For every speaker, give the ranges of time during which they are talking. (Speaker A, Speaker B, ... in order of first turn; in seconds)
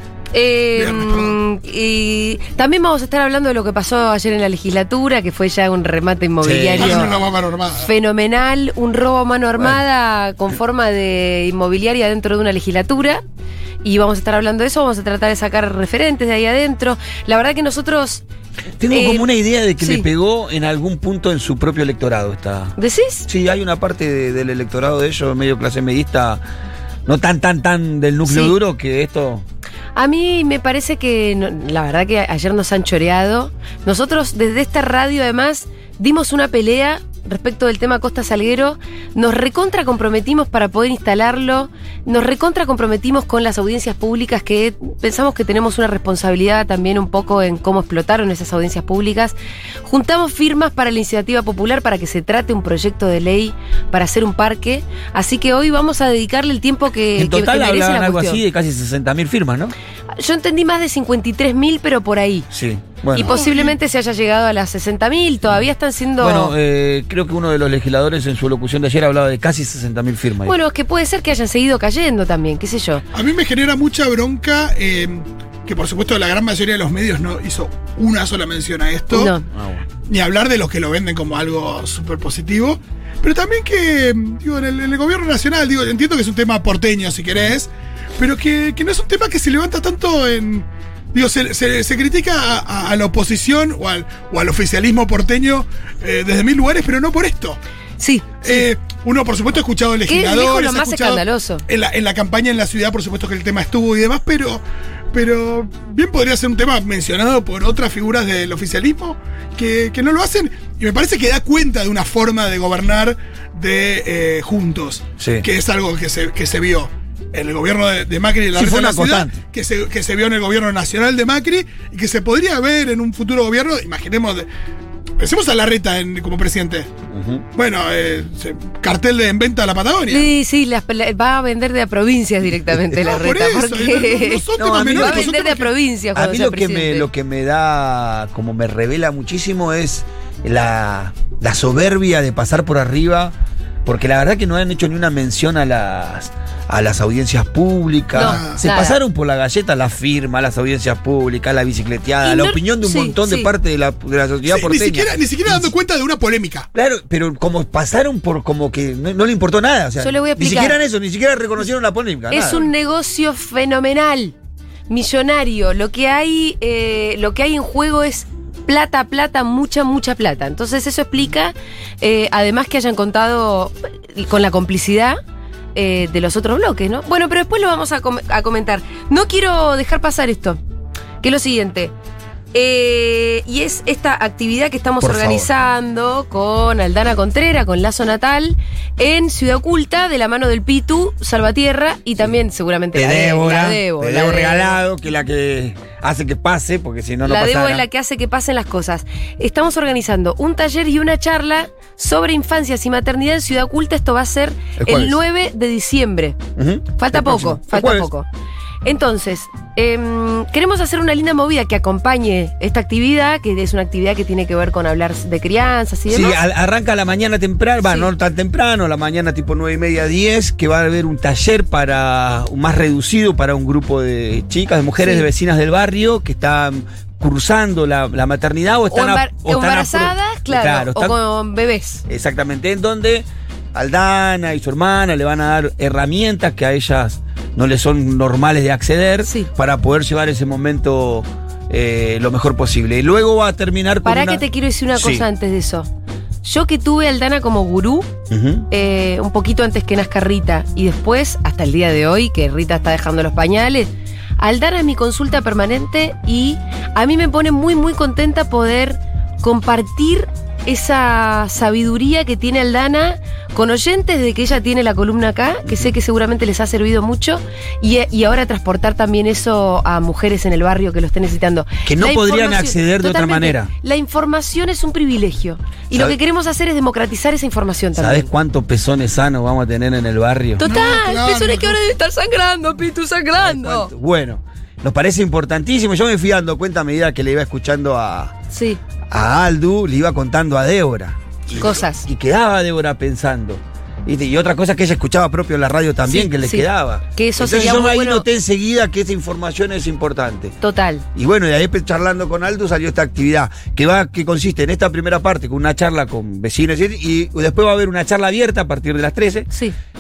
Speaker A: 0.3-7.2, 7.8-13.2, 13.8-18.2, 18.9-20.1, 22.8-23.3, 28.3-28.6, 29.9-58.4, 60.1-62.5, 63.1-66.5, 70.5-73.0, 79.1-79.5, 98.0-98.7, 100.1-101.7, 130.1-137.1, 148.1-149.0, 152.2-153.5, 160.0-160.8, 162.3-164.3, 164.9-175.2, 175.8-180.6, 181.2-181.9, 182.5-194.8, 197.2-206.4, 207.0-208.3, 208.8-216.4, 217.8-218.1, 225.0-225.3, 228.9-232.0, 239.2-239.5, 244.1-245.9, 246.4-248.1, 248.7-278.3, 280.6-283.9, 288.5-288.8, 291.6-292.1, 296.1-298.2, 300.6-301.1
Speaker B: 0.8-1.4, 6.8-7.9, 63.2-63.8, 73.1-79.3, 80.0-97.6, 98.4-124.5, 125.2-126.9, 127.5-130.3, 133.0-135.7, 148.2-148.6, 154.5-156.7, 280.6-281.8
Speaker C: 6.4-7.2, 18.8-22.8, 23.3-26.4, 27.1-29.4, 57.1-59.7, 62.5-63.4, 66.2-70.5, 79.5-79.8, 115.2-115.5, 118.5-119.4, 127.1-127.5, 134.6-135.3, 136.2-143.3, 143.8-155.7, 156.7-162.7, 185.0-185.5, 192.9-197.8, 204.8-205.2, 206.6-208.1, 216.1-231.2, 232.1-245.3, 248.3-248.7, 271.9-273.7, 275.9-276.2, 277.9-280.6, 283.4-288.4, 289.1-300.6, 301.1-309.5